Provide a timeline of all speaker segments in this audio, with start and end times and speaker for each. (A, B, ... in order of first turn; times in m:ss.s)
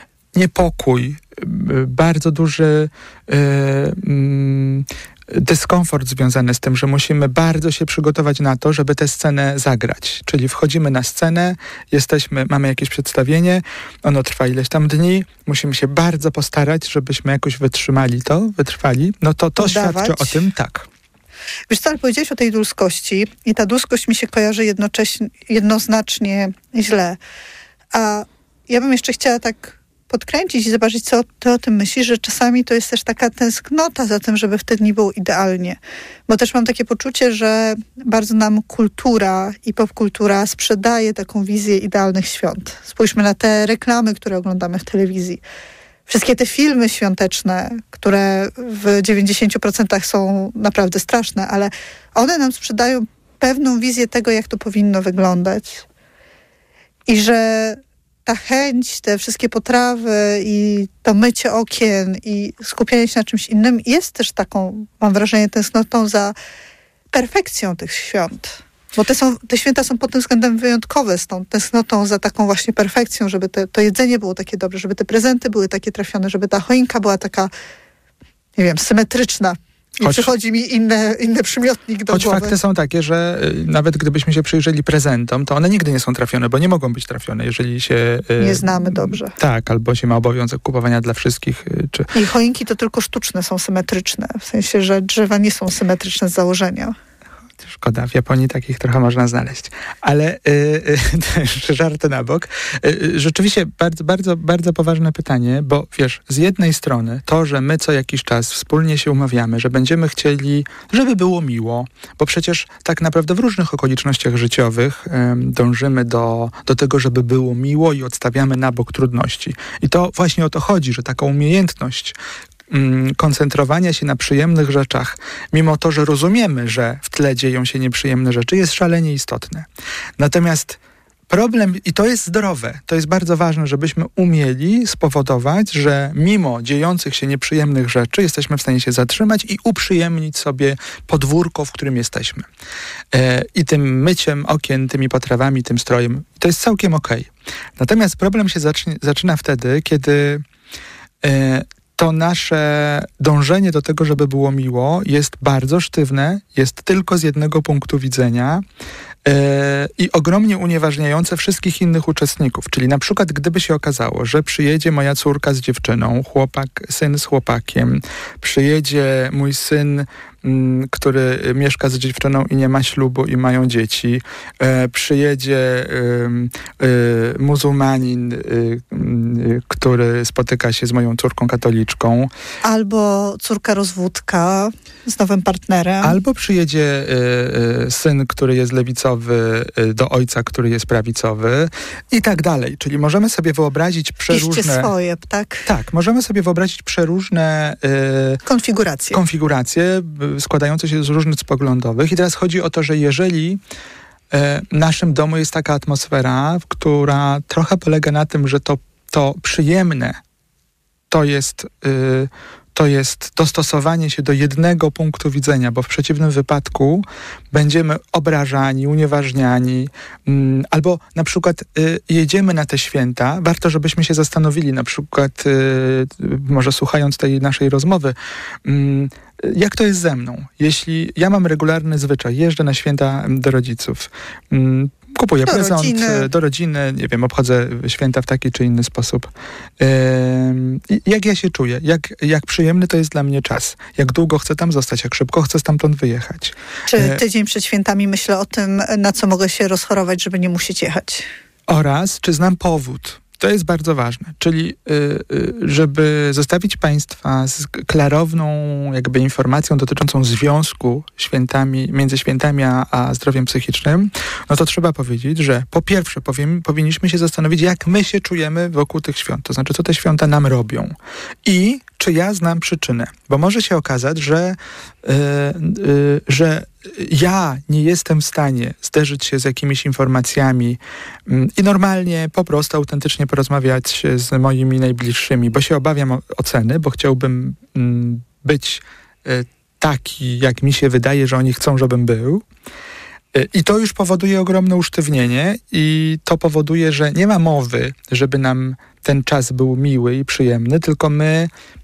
0:00.3-0:20.9 A
0:19.6-0:20.4 B
0:21.7-0:27.2 B
0:27.9-0:45.4 B
0:46.1-0:55.8 B
0:57.1-1:06.4 B
1:07.1-1:17.5 B
1:18.6-1:22.6 B
1:20.0-1:20.3 A
1:22.1-1:32.1 A
1:28.4-1:29.3 B
1:32.1-1:37.0 B
1:37.6-2:02.2 A
2:02.7-2:09.7 A
2:10.2-2:22.5 A
2:23.1-2:30.4 A
2:31.2-2:38.6 A
2:39.2-3:02.3 A
3:02.6-3:06.2 B
3:06.0-3:14.9 A
3:14.3-3:15.6 B
3:15.7-3:18.4 A
3:18.5-3:19.2 B
3:19.1-3:23.6 A
3:24.3-3:30.2 A
3:31.1-4:07.2 A
3:55.4-3:56.3 B
4:06.9-4:11.3 B
4:11.7-4:52.4 A
4:53.3-5:01.5 A